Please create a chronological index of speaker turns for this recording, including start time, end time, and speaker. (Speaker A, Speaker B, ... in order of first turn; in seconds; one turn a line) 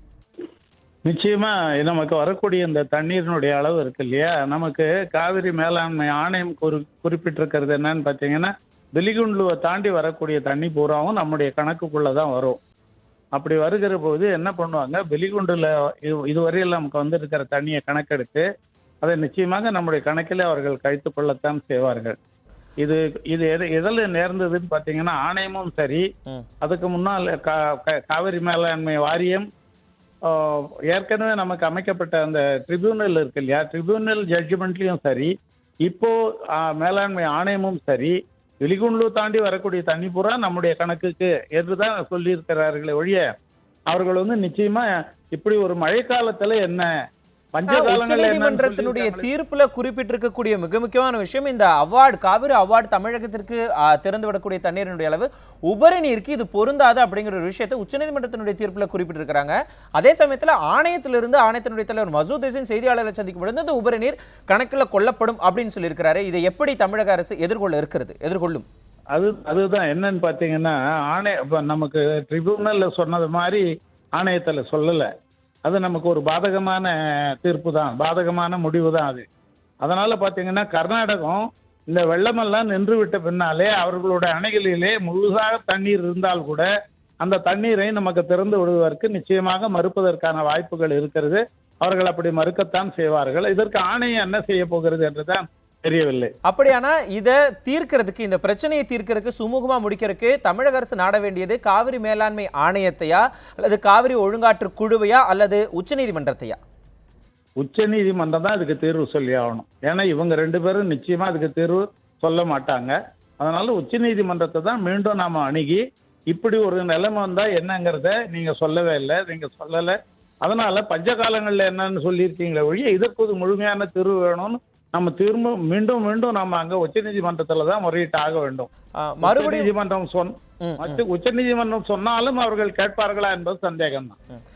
Speaker A: 1.1-12.6
Speaker A: 13.3-18.4
Speaker A: 19.0-22.1
Speaker A: 22.8-26.0
Speaker A: 26.6-29.4
Speaker A: 30.2-35.3
Speaker A: 35.9-43.2
Speaker A: 43.9-46.9
Speaker A: 47.5-49.3
Speaker B: 47.7-68.6
Speaker A: 69.1-73.6
Speaker A: 74.2-75.1
Speaker A: 75.6-79.2
Speaker A: 79.8-86.7
Speaker A: 87.2-96.3
Speaker B: 96.5-106.6
Speaker A: 107.6-115.8
Speaker A: 116.3-128.7
Speaker B: 129.0-129.7
Speaker A: 129.2-134.2
Speaker B: 130.6-131.0